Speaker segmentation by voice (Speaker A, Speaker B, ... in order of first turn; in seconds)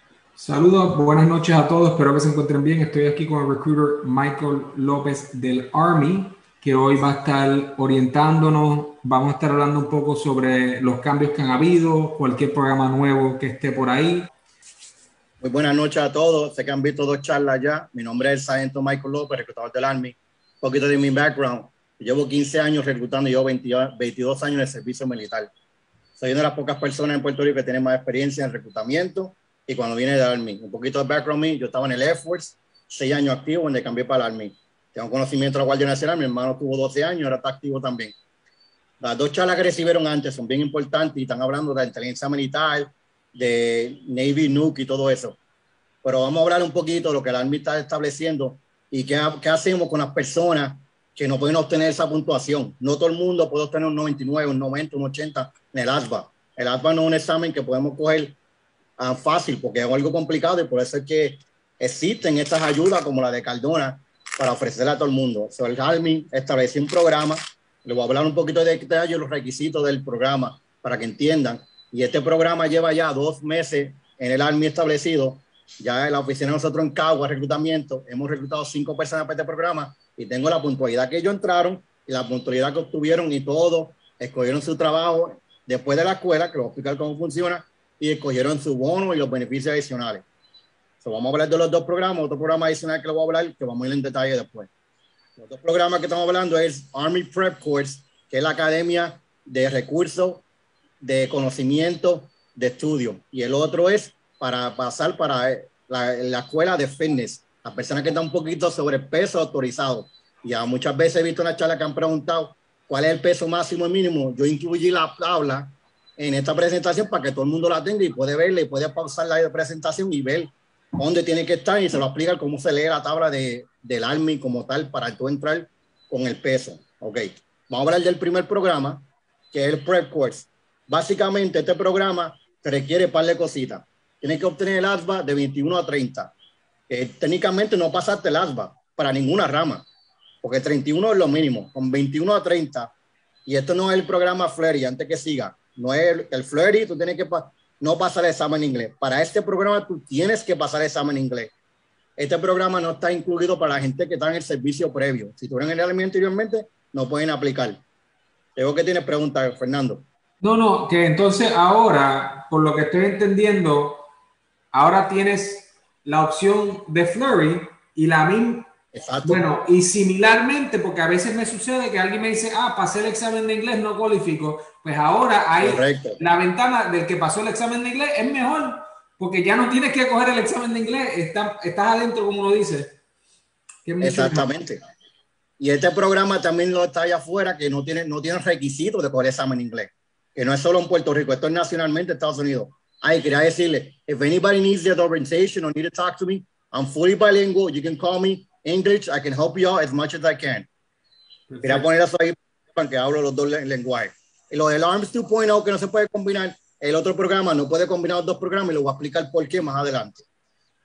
Speaker A: 0.4-14.3, 160.4-164.0, 164.7-168.7, 169.2-183.0, 183.8-184.5, 201.5-201.9
Speaker B: 15.4-25.5, 26.2-38.2, 39.0-45.4, 46.0-58.4, 59.0-90.2, 91.0-94.7, 95.4-100.5, 101.0-129.0, 129.5-136.3, 136.9-139.8, 140.4-142.9, 143.5-151.5, 152.2-157.8, 158.6-160.0, 168.9-169.5, 175.6-176.2, 184.0-184.8, 185.6-200.7, 201.6-210.2